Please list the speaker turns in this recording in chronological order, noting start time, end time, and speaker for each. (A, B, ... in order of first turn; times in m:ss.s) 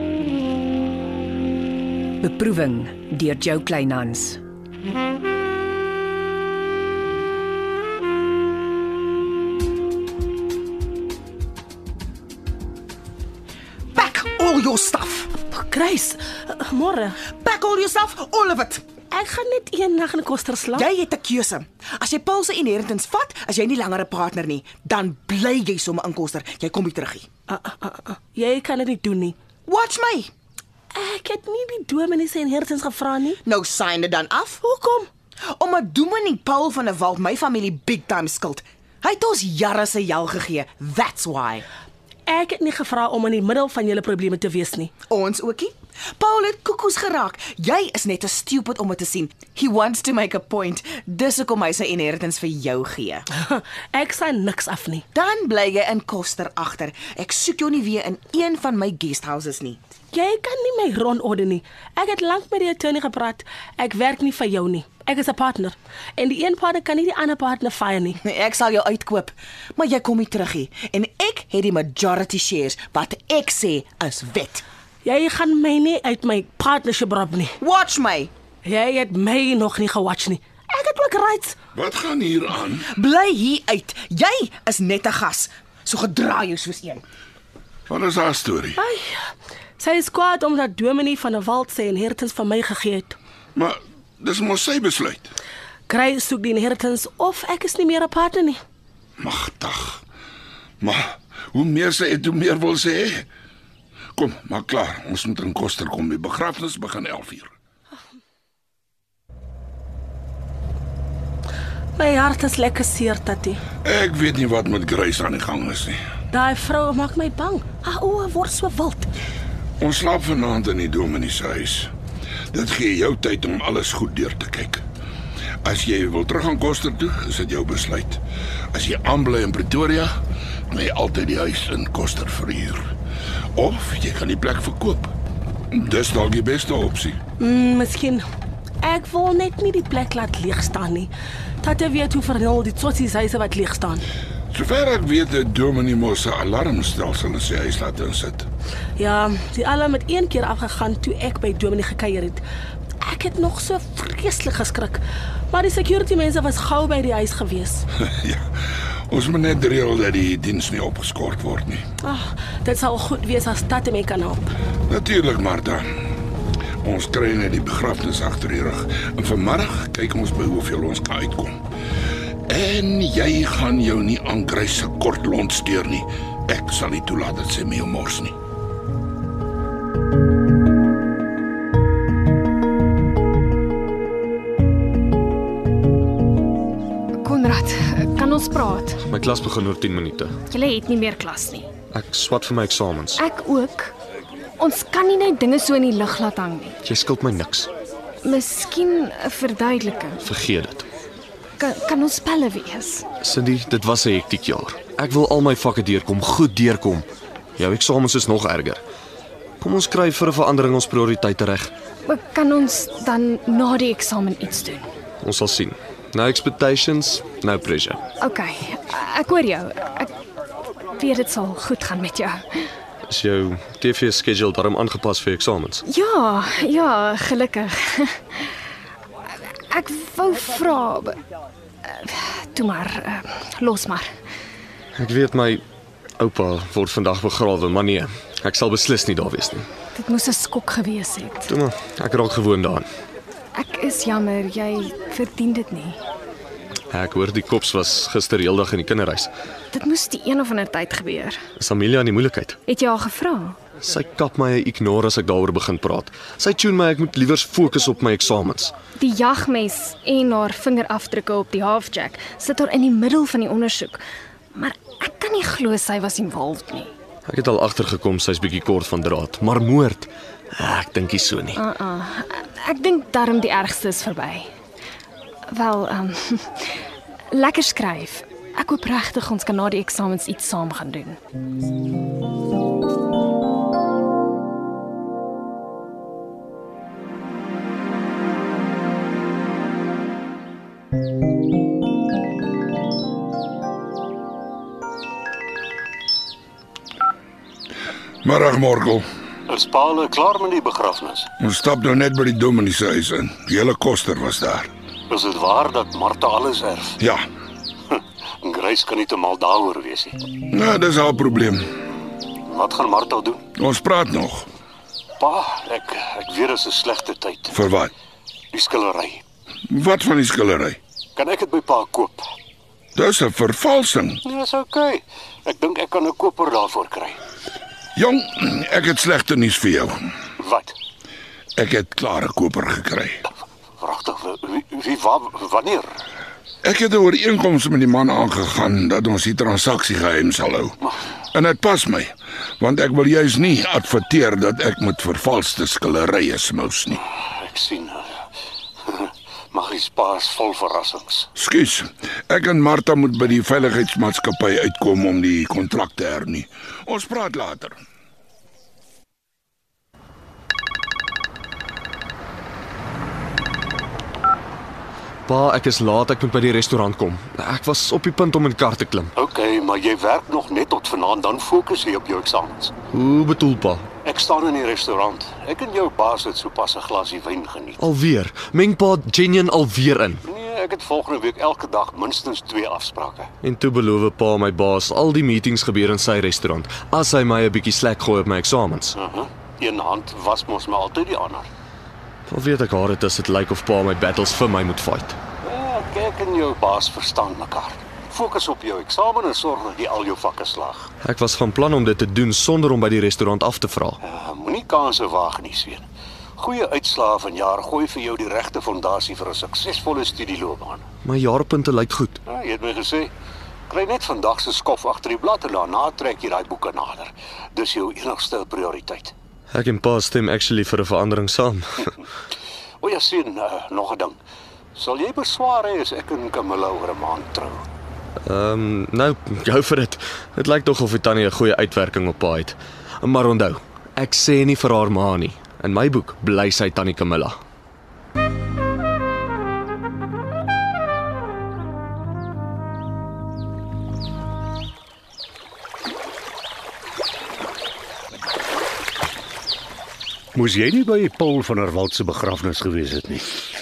0:02.2-0:04.4 A
0:13.9-0:15.3 B
0:15.5-0:17.2 C
0:17.3-0:18.8 B
0:19.1-0:20.9 C
0:20.7-0:27.3 B
0:27.5-0:29.4 C
0:29.6-0:30.3 B
0:30.9-0:33.4 C
0:33.4-0:34.6 B
0:34.6-0:35.1 C
0:35.5-0:41.7 B
0:42.3-0:44.9 C
0:45.1-0:53.2 B
0:53.5-0:55.0 C
0:55.1-0:59.8 B
1:00.1-1:08.2 C
1:08.2-1:14.6 B
1:15.0-1:17.5 C
1:17.6-1:18.3 B
1:18.6-1:21.6 C
1:21.7-1:22.9 D
1:22.9-1:27.0 B
1:27.9-1:28.8 D
1:28.8-1:29.1 C
1:29.8-1:33.2 C
1:33.5-1:35.3 D
1:35.9-1:38.6 C
1:39.2-1:40.0 D
1:40.8-1:43.3 D
1:44.2-1:47.5 D
1:52.0-1:53.6 C
1:53.8-1:56.0 D
1:56.3-1:59.1 C
1:59.8-2:01.9 D
2:02.5-2:04.8 D
2:05.6-2:10.1 D
2:10.7-2:12.9 D
2:13.6-2:15.1 D
2:15.7-2:17.2 D
2:17.4-2:18.2 C
2:18.8-2:21.1 C
2:21.6-2:24.0 C
2:24.5-2:28.5 D
2:29.0-2:32.4 C
2:33.0-2:35.0 C
2:35.5-2:37.8 C
2:38.2-2:38.5 D
2:39.1-2:41.8 D
2:42.0-2:44.5 C
2:44.9-2:45.9 D
2:46.8-2:51.6 D
2:52.5-2:58.4 D
3:07.2-3:09.0 E
3:09.1-3:10.3 F
3:10.5-3:11.7 E
3:11.9-3:13.2 F
3:13.2-3:13.9 E
3:14.6-3:16.8 E
3:16.8-3:17.7 F
3:18.2-3:20.2 E
3:20.2-3:20.8 F
3:21.6-3:23.0 E
3:23.2-3:27.0 F
3:27.6-3:28.8 F
3:29.6-3:31.7 F
3:32.0-3:34.9 E
3:35.2-3:38.0 F
3:38.2-3:40.1 E
3:40.9-3:42.4 E
3:43.1-3:45.8 F
3:45.8-3:48.5 E
3:49.3-3:51.2 E
3:51.8-3:54.1 E
3:55.0-3:55.6 F
3:56.2-3:59.7 F
3:59.9-4:01.5 E
4:01.5-4:02.9 F
4:03.5-4:06.0 E
4:06.9-4:09.3 F
4:09.7-4:11.4 E
4:11.6-4:12.6 F
4:12.7-4:13.6 E
4:13.8-4:18.7 F
4:19.0-4:24.0 E
4:24.5-4:26.9 E
4:27.3-4:31.6 F
4:31.6-4:34.5 E
4:35.5-4:41.2 E
4:58.2-4:59.0 D
4:59.5-5:01.2 G
5:01.4-5:04.7 D
5:05.1-5:07.0 G
5:07.9-5:10.2 G
5:10.5-5:11.7 D
5:12.4-5:13.4 G
5:13.6-5:14.5 D
5:15.2-5:17.6 G
5:17.5-5:17.9 D
5:18.5-5:19.2 G
5:19.7-5:20.8 D
5:21.2-5:22.2 G
5:23.0-5:24.2 D
5:24.2-5:27.2 G
5:27.9-5:30.1 D
5:30.4-5:30.7 G
5:31.6-5:33.2 D
5:33.8-5:35.9 G
5:36.6-5:40.8 D
5:41.3-5:47.0 D
5:47.3-5:48.1 G
5:48.9-5:51.3 G
5:51.4-5:57.8 D
6:05.3-6:09.1 F
6:09.2-6:12.7 G
6:12.9-6:13.8 F
6:14.0-6:17.8 G
6:17.8-6:20.2 F
6:20.3-6:23.3 G
6:23.4-6:29.0 F
6:29.0-6:31.5 G
6:32.3-6:35.2 F
6:35.4-6:40.9 G
6:41.0-6:44.0 F
6:44.0-6:45.8 G
6:46.4-6:50.8 G
6:51.0-6:52.2 F
6:52.3-6:53.1 G
6:53.7-6:59.1 G
6:59.5-7:01.9 F
7:02.8-7:04.2 G
7:04.7-7:07.6 G
7:08.2-7:17.4 F
7:30.3-7:33.4 H